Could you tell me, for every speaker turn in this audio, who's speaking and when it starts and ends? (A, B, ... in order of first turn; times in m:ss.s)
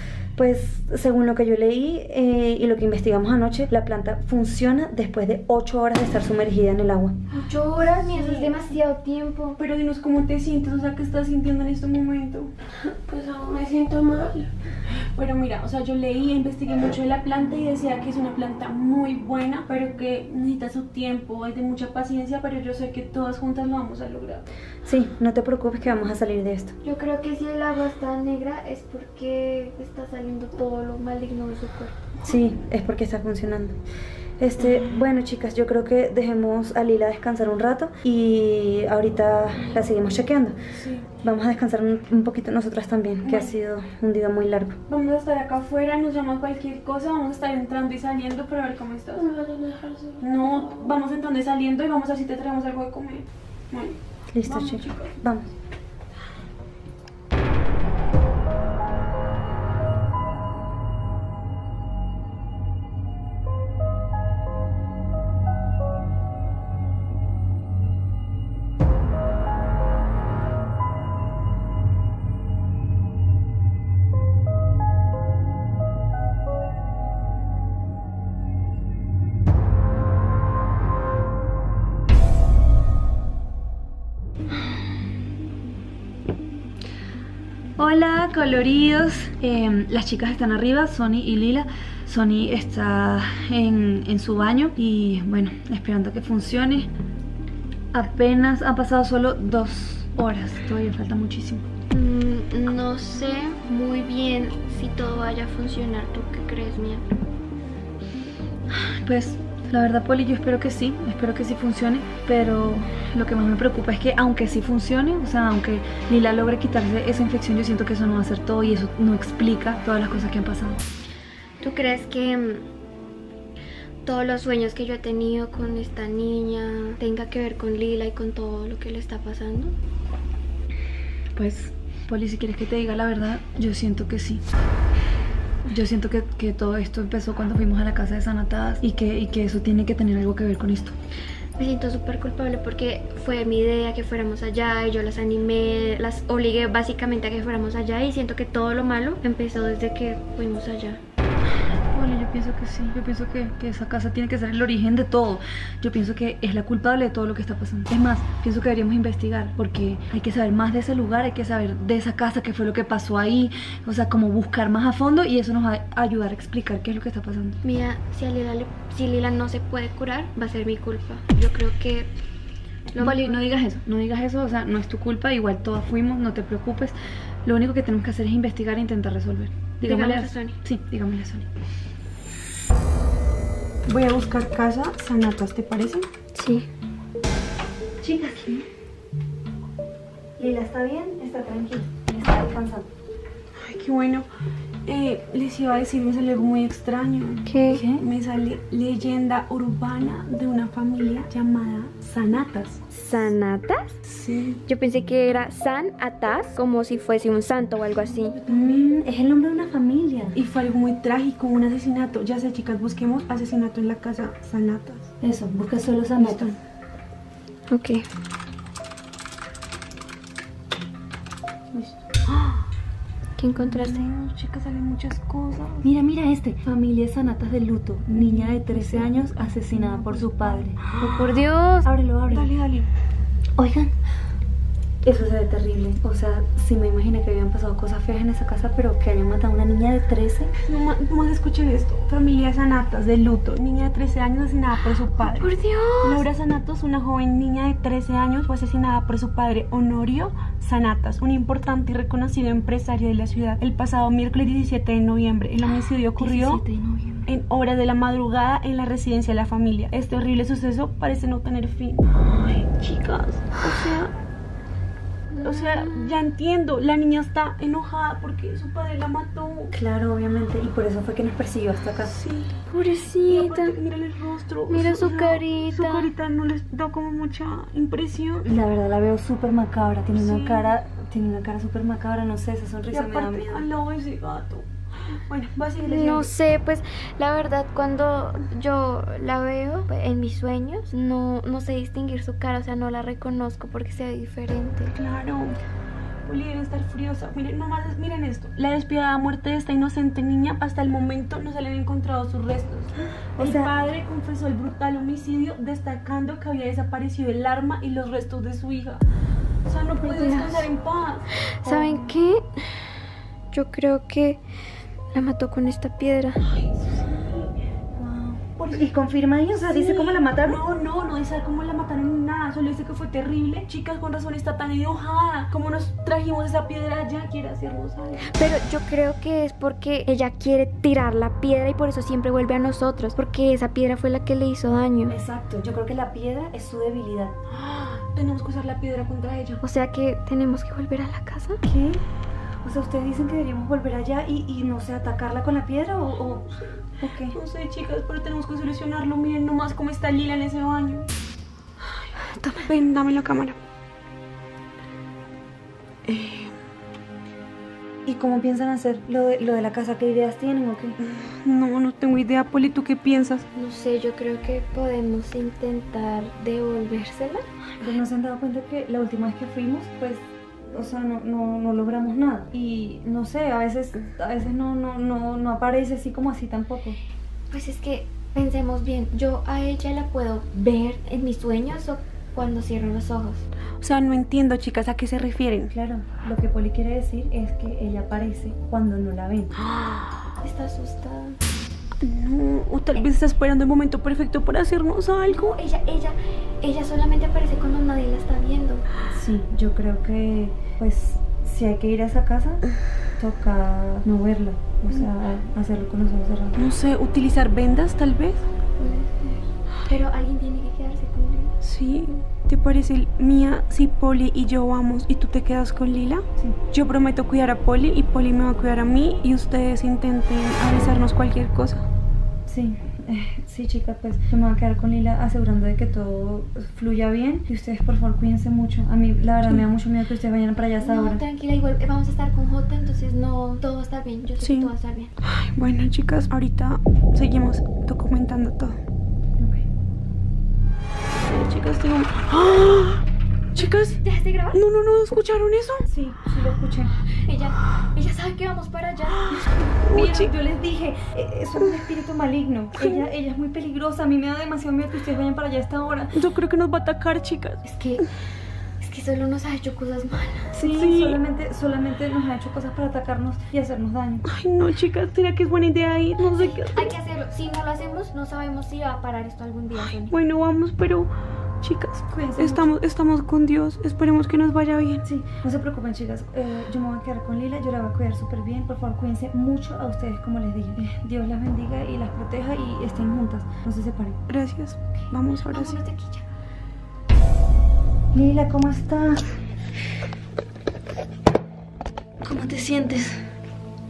0:00.4-0:07.1 A
0:07.4-0:09.6 B
0:09.6-0:12.5 C
0:13.0-0:14.5 D
0:15.1-0:24.4 C
0:24.8-0:26.7 A
0:26.8-0:32.0 B
0:32.2-0:33.8 A
0:34.4-0:40.6 A
0:34.6-0:34.9 C
0:40.7-0:41.1 C
0:41.2-0:44.8 A
0:43.2-0:43.5 C
0:44.9-0:49.3 C
0:49.4-0:50.2 D
0:50.2-0:55.1 C
0:54.3-0:55.5 A
1:27.8-1:36.9 A
1:37.9-1:41.6 A
1:41.9-1:47.1 B
1:48.7-2:00.8 A
2:01.6-2:02.6 B
2:04.0-2:09.8 B
2:11.4-2:14.4 A
2:15.7-2:20.9 A
2:21.6-2:31.0 B
2:31.9-2:47.6 A
2:47.6-2:52.1 B
2:52.9-2:53.4 B
2:52.9-3:01.5 A
2:59.8-3:00.6 B
3:03.9-3:06.1 C
3:06.3-3:06.7 B
3:08.0-3:08.6 A
3:10.4-3:12.9 A
3:13.6-3:14.3 C
3:14.8-3:22.8 C
3:17.4-3:17.8 B
3:17.7-3:18.0 A
3:22.9-3:24.0 B
3:24.0-3:24.6 C
3:24.6-3:28.4 B
3:28.2-3:28.8 C
3:28.5-3:30.4 A
3:30.3-3:35.1 C
3:35.2-3:36.5 A
3:36.2-3:36.6 C
3:37.7-3:38.0 B
3:41.7-3:42.0 A
3:42.3-3:42.6 C
3:43.4-3:44.0 B
3:43.6-3:45.8 C
3:45.8-3:51.1 A
3:48.1-3:51.3 C
3:51.0-3:51.9 B
3:51.8-3:52.5 A
3:52.3-3:52.9 C
3:53.6-3:53.9 A
3:55.0-4:00.5 A
4:00.6-4:16.6 C
4:05.2-4:06.2 B
4:15.6-4:17.3 B
4:17.2-4:24.1 C
4:25.3-4:26.1 B
4:25.4-4:29.7 C
4:29.7-4:32.1 A
4:32.1-4:32.6 C
4:32.7-4:33.8 B
4:33.3-4:38.4 C
4:34.7-4:36.1 B
4:38.4-4:43.7 A
4:40.1-4:40.7 C
4:42.9-4:46.3 C
4:45.8-4:54.9 B
4:54.9-4:55.6 C
4:56.2-5:09.0 C
5:03.4-5:03.7 A
5:09.6-5:12.1 C
5:10.0-5:10.7 B
5:11.4-5:12.6 B
5:13.5-5:14.4 B
5:15.1-5:16.4 B
5:16.4-5:17.5 C
5:18.0-5:20.6 A
5:18.6-5:18.9 C
5:19.6-5:28.2 C
5:28.3-5:35.2 B
5:35.0-5:37.3 A
5:37.5-5:39.6 C
5:39.6-5:41.6 B
5:41.6-5:42.0 A
5:42.6-5:47.4 A
5:47.3-5:51.1 C
5:52.2-5:52.7 B
5:52.6-5:53.6 C
5:56.0-5:56.5 C
5:58.0-6:01.0 A
6:01.1-6:03.4 C
6:03.5-6:07.4 B
6:07.8-6:17.0 A
6:17.5-6:23.4 B
6:23.8-6:25.7 C
6:25.7-6:29.5 A
6:29.7-6:30.0 C
6:30.4-6:31.4 B
6:32.0-6:35.5 C
6:35.3-6:38.8 B
6:39.1-6:42.6 A
6:43.2-6:46.6 A
6:46.5-6:48.4 C
6:48.8-6:51.5 B
6:51.6-7:01.8 C
7:02.5-7:11.2 A
7:10.8-7:15.1 B
7:14.4-7:14.7 C
7:15.2-7:18.8 C
7:21.2-7:23.0 C
7:23.5-7:25.8 C
7:23.6-7:24.6 B
7:25.9-7:26.9 A
7:27.2-7:29.4 B
7:29.3-7:30.3 C
7:29.9-7:36.1 A
7:32.8-7:33.1 C
7:36.1-7:37.6 C
7:37.6-7:38.0 B
7:38.8-7:40.5 B
7:40.5-7:41.2 C
7:40.6-7:44.2 A
7:44.3-7:46.9 C
7:46.3-7:50.1 B
7:50.0-7:51.1 C
7:51.6-7:55.0 C
7:52.1-7:52.7 A
7:55.0-8:04.2 A
8:04.3-8:05.8 C
8:04.9-8:06.3 B
8:08.1-8:09.3 A
8:12.2-8:13.2 A